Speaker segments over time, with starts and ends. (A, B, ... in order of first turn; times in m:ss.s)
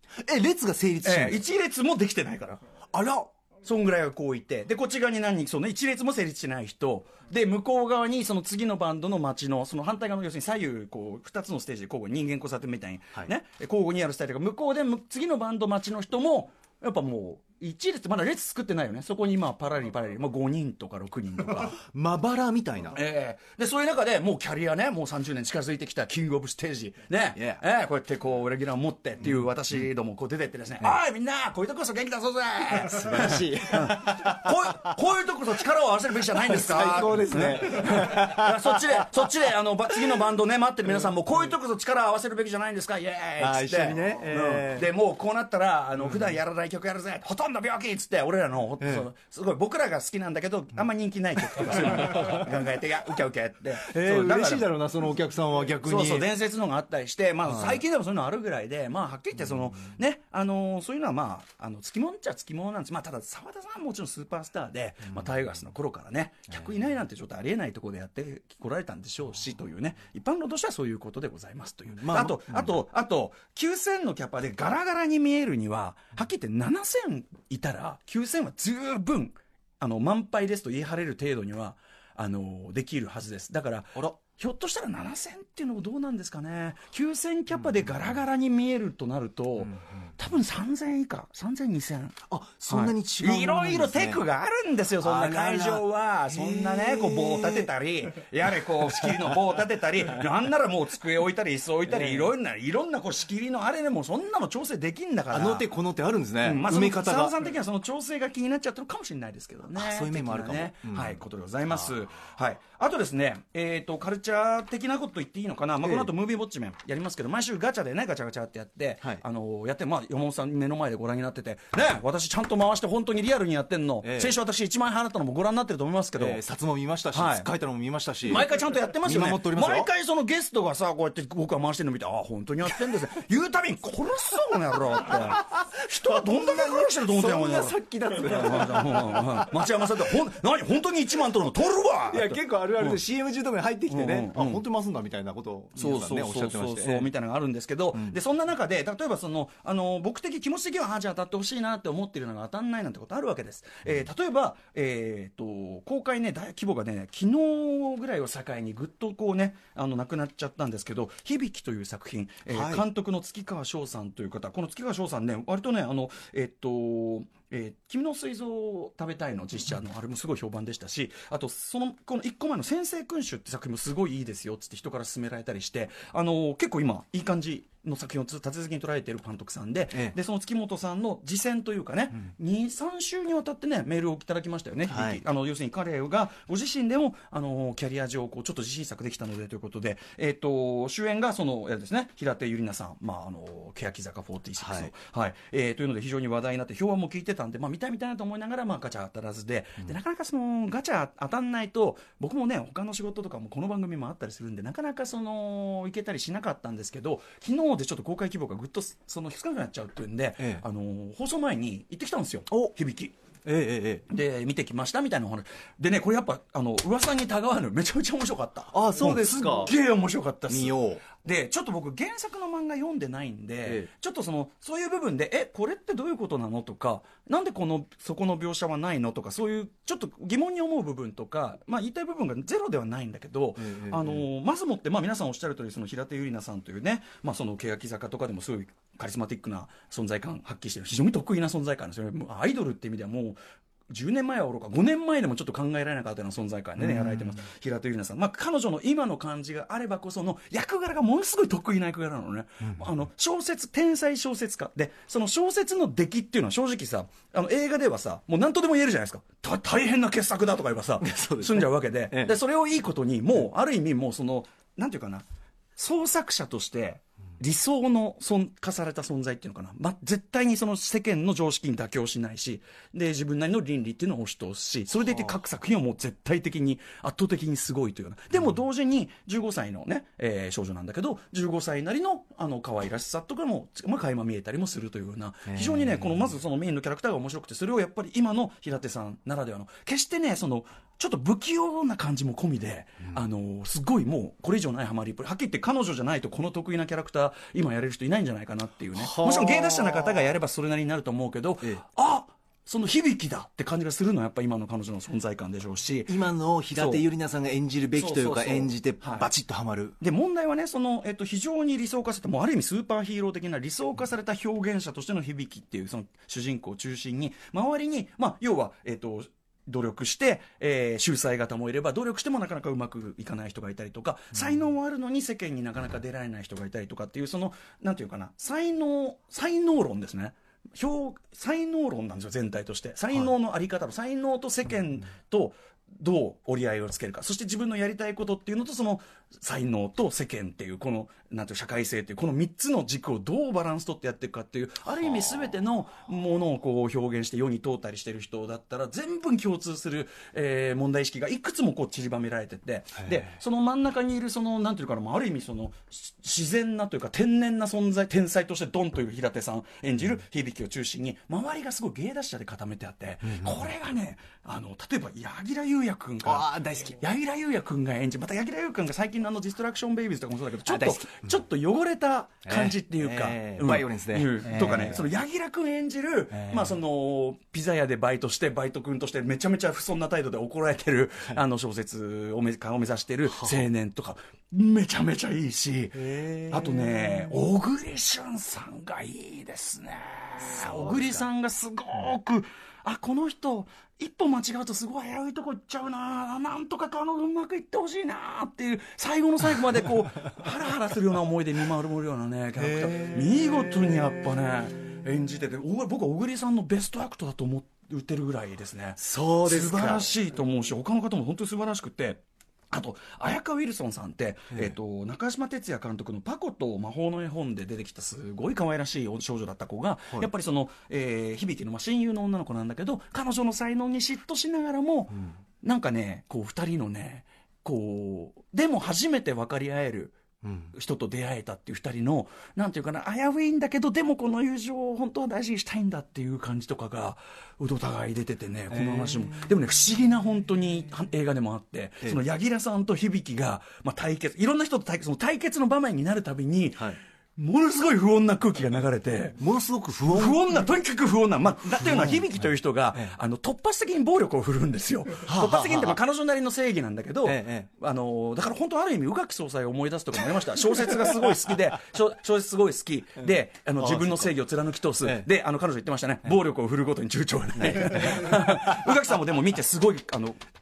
0:00.2-0:01.4 A
0:01.0-0:21.8 B
0:21.8-0:23.0 A
0:22.9-0:54.7 B
0:27.4-0:27.6 A
0:32.8-0:34.9 A
0:36.4-0:39.0 A
0:43.4-0:44.9 A
0:48.8-0:49.1 A
0:51.7-0:52.4 A
0:53.8-0:56.3 A
0:55.8-1:45.7 B
0:57.5-0:57.8 A
1:11.9-1:12.8 A
1:32.3-1:34.2 A
1:35.0-1:37.7 A
1:38.9-1:39.3 A
1:41.9-1:42.3 A
1:45.3-1:47.4 A
1:46.4-2:06.4 B
1:49.8-1:51.2 A
1:55.8-1:56.1 A
2:04.0-2:04.4 A
2:06.2-2:09.9 A
2:07.1-2:07.5 B
2:08.2-2:23.0 B
2:15.0-2:20.2 A
2:22.1-2:27.1 A
2:23.9-2:24.6 B
2:25.8-3:33.1 B
2:42.5-2:42.8 A
3:04.9-3:05.2 A
3:14.6-3:14.9 A
3:33.4-3:34.0 A
3:34.1-4:03.4 B
3:38.7-3:39.7 A
3:40.5-3:41.0 A
3:53.6-3:54.2 A
4:03.9-4:25.2 B
4:06.8-4:07.4 A
4:21.0-4:22.4 A
4:25.8-5:06.2 B
4:45.5-4:46.3 A
4:59.0-5:00.3 A
5:06.1-5:10.0 A
5:06.8-5:07.0 B
5:08.0-5:09.3 B
5:10.0-7:10.2 B
6:06.2-6:07.0 A
6:10.6-6:11.4 A
6:12.5-6:15.1 A
6:16.3-6:16.8 A
6:23.3-6:23.6 A
6:25.9-6:27.4 A
6:30.4-6:31.2 A
6:42.6-6:43.5 A
6:49.0-6:50.1 A
7:10.4-7:10.7 A
7:10.7-7:29.4 B
7:18.7-7:19.5 A
7:29.4-7:30.4 A
7:30.1-7:50.4 B
7:31.7-7:32.3 A
7:35.3-7:36.0 A
7:37.2-7:37.7 A
7:40.8-7:41.4 A
7:43.8-7:44.3 A
7:47.7-7:48.9 A